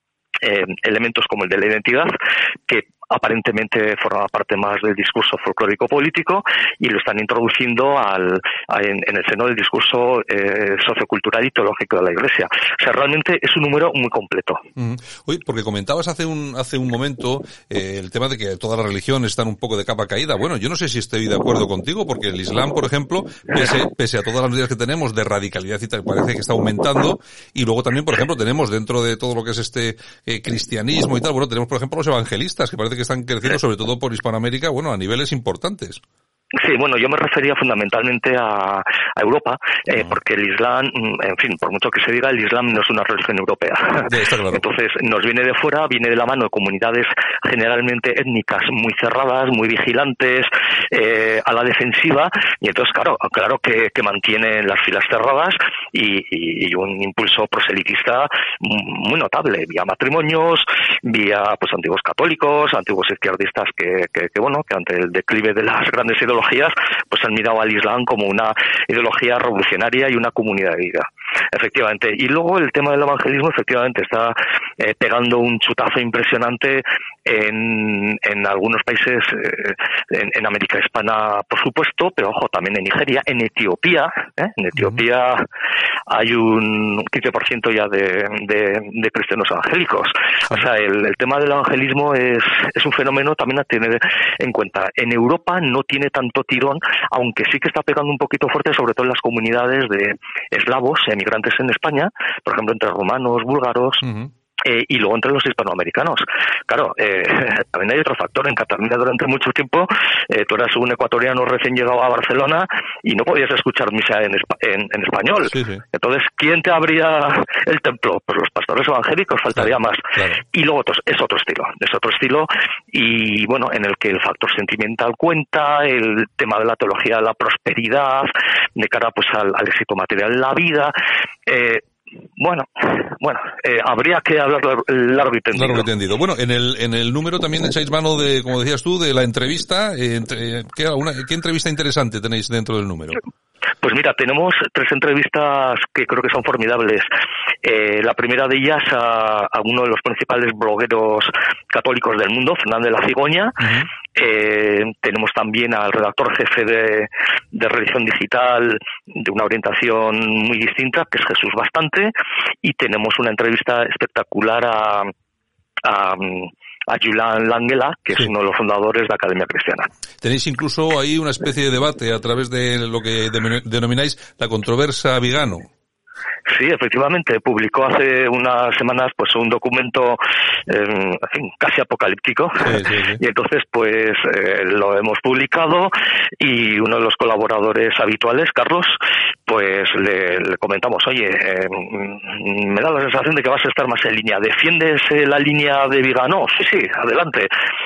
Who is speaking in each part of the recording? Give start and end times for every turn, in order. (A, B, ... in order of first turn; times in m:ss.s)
0:00.4-0:02.1 A
0:02.7-0:14.6 A
0:14.8-0:36.0 B
0:36.6-1:25.4 A
0:44.1-0:44.6 B
1:26.1-1:44.0 A
1:44.0-1:44.3 B
1:44.6-2:10.9 A
1:55.5-1:55.8 B
1:59.6-2:00.4 B
2:11.5-2:11.8 A
2:12.4-2:15.9 A
2:15.6-2:23.2 B
2:23.8-2:27.1 A
2:27.6-2:33.6 A
2:33.6-2:33.9 B
2:34.2-2:42.1 A
2:42.6-2:45.1 A
2:45.8-2:49.9 A
2:50.2-2:55.7 B
2:56.5-3:09.0 A
3:02.6-3:03.2 B
3:09.5-3:17.5 A